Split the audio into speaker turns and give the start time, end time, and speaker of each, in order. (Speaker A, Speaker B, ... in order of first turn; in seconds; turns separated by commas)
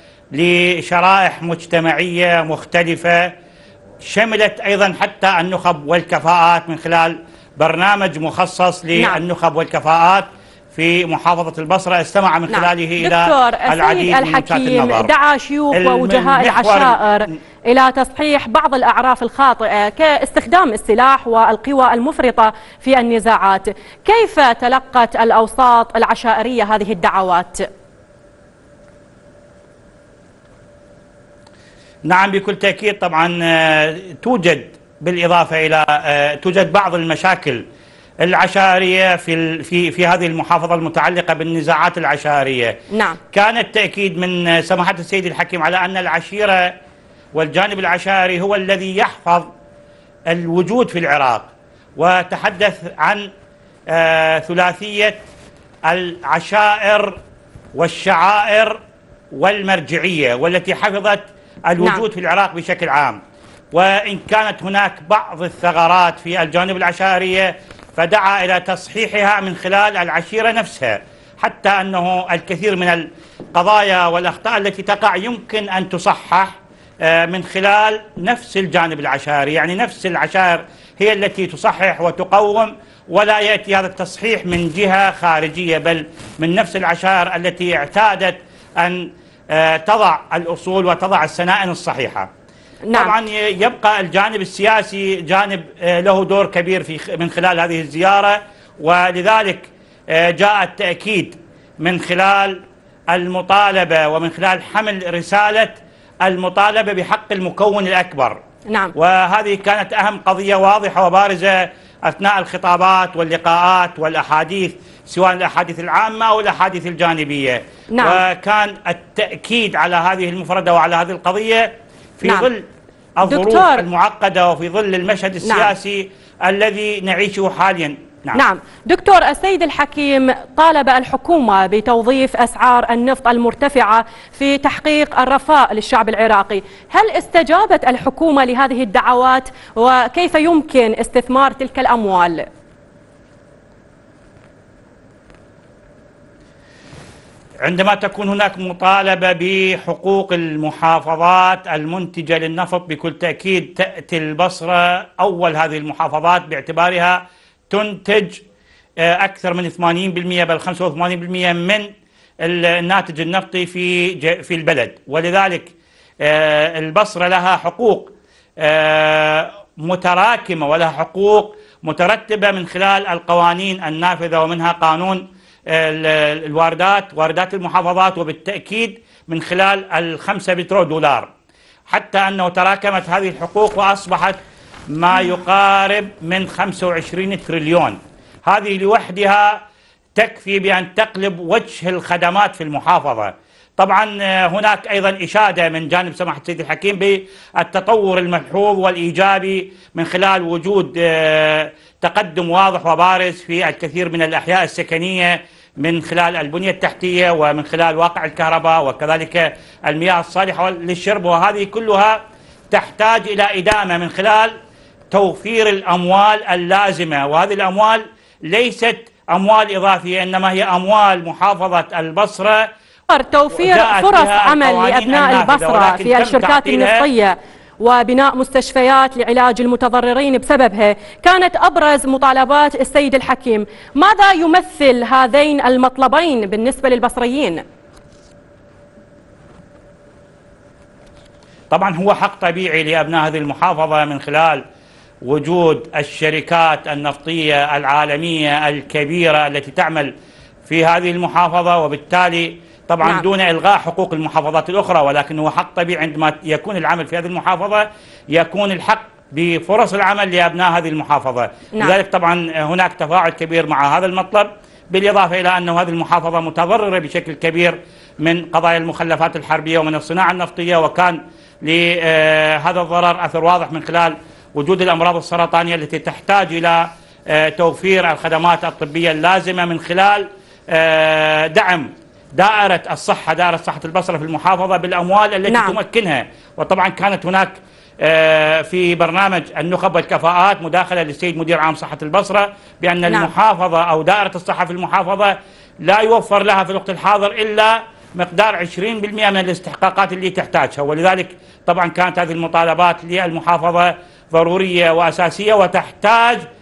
Speaker A: 0.4-3.3, Speaker A: 4.1-15.1, Speaker B: 12.5-27.6, Speaker A: 15.7-17.0, Speaker A: 32.1-37.6, Speaker A: 38.2-42.7, Speaker B: 42.9-43.2, Speaker A: 43.3-46.6, Speaker A: 47.4-49.5, Speaker A: 50.3-53.3, Speaker A: 53.9-55.2, Speaker A: 55.9-57.2, Speaker A: 57.8-58.8, Speaker A: 59.3-63.2, Speaker A: 63.7-76.6, Speaker A: 77.1-92.3, Speaker A: 93.0-102.6, Speaker A: 103.1-108.4, Speaker A: 109.0-122.6, Speaker B: 117.9-118.2, Speaker A: 123.2-128.4, Speaker B: 123.2-123.8, Speaker B: 125.4-125.7, Speaker B: 128.3-142.4, Speaker A: 147.7-158.4, Speaker A: 159.1-161.9, Speaker A: 162.4-165.7, Speaker A: 166.2-181.3, Speaker A: 181.9-184.4, Speaker A: 184.9-189.6, Speaker A: 190.2-212.2, Speaker A: 212.7-214.5, Speaker A: 215.1-222.7, Speaker B: 223.1-237.6, Speaker A: 223.6-227.1, Speaker A: 241.7-244.6, Speaker A: 245.2-250.1, Speaker A: 250.7-306.4, Speaker B: 285.5-285.8